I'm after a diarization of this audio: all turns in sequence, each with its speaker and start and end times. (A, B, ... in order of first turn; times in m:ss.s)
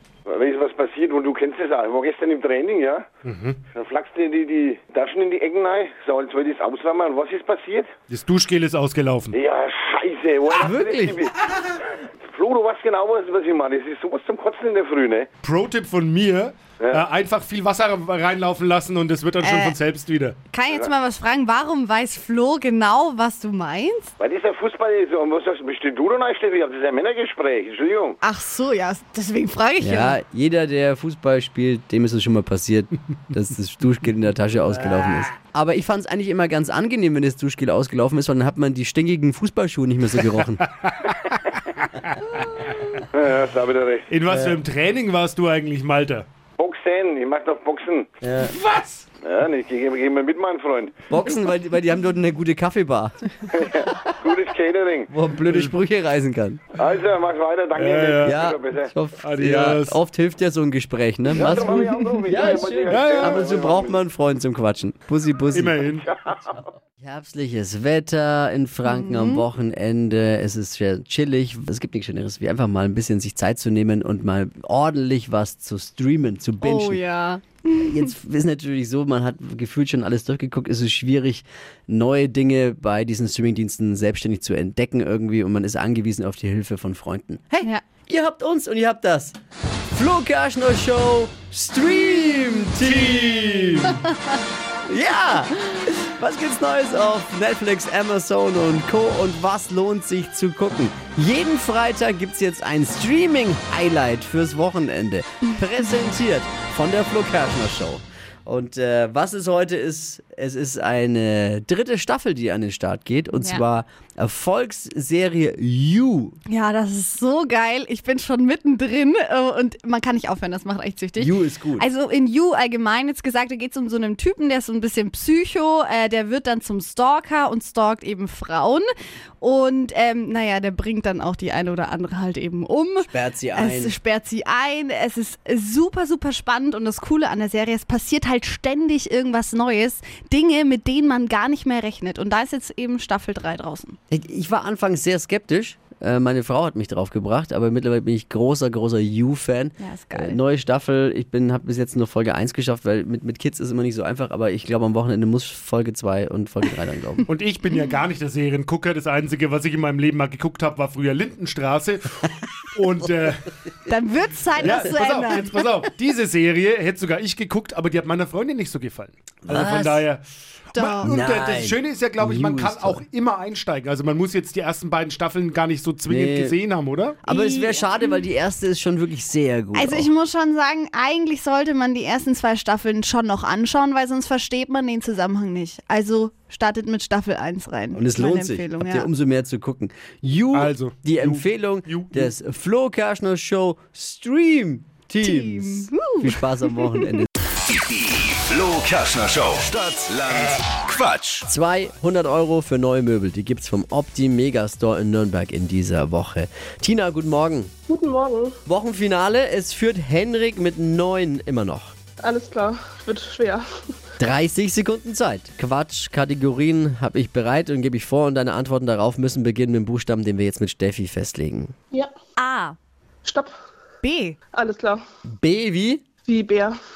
0:00.2-0:03.0 A
0:03.2-0:03.6 B
0:03.7-0:07.9 A
0:08.1-0:09.3 B
0:09.3-0:15.3 A
0:10.6-0:11.2 C
0:15.4-0:20.4 B
0:19.4-0:19.8 D
0:20.5-0:24.1 D
0:24.2-0:28.2 A
0:28.2-0:30.2 D
0:29.8-0:40.6 C
0:43.1-0:44.1 A
0:44.1-0:46.3 B
0:44.3-0:44.6 C
0:46.6-0:48.1 A
0:48.2-0:48.6 C
0:48.6-0:49.0 B
0:49.2-0:50.9 A
0:51.1-0:53.2 C
0:53.5-0:55.1 A
0:55.1-0:56.6 C
0:56.8-0:58.9 A
0:57.7-0:58.3 B
0:58.2-1:05.8 C
0:59.2-1:00.0 B
1:01.3-1:04.0 A
1:02.9-1:03.5 B
1:05.5-1:06.1 B
1:05.8-1:06.6 A
1:06.4-1:17.0 C
1:08.8-1:09.4 D
1:16.6-1:18.0 D
1:17.7-1:29.4 C
1:29.9-1:34.0 C
1:34.8-1:56.4 C
1:53.4-1:53.6 D
1:56.5-2:08.8 D
2:01.2-2:01.9 C
2:09.4-2:24.0 D
2:13.1-2:14.0 C
2:24.1-2:37.2 C
2:29.8-2:30.4 D
2:37.3-2:43.4 B
2:43.9-2:45.6 D
2:44.6-2:50.2 B
2:49.5-2:50.0 C
2:50.7-2:57.1 B
2:50.7-2:51.1 D
2:51.0-2:53.0 C
2:56.1-2:56.5 C
2:57.2-3:00.1 C
2:57.2-2:58.2 D
2:59.7-3:09.1 D
3:07.9-3:17.3 C
3:10.5-3:12.3 B
3:15.2-3:17.1 D
3:17.8-3:21.5 E
3:21.4-3:27.7 C
3:27.9-3:28.6 F
3:28.6-3:31.9 C
3:32.2-3:33.9 F
3:34.2-3:41.7 C
3:42.4-3:42.8 D
3:43.2-3:43.5 F
3:44.0-3:44.4 D
3:44.5-3:45.0 F
3:45.4-3:46.0 C
3:46.2-3:46.8 F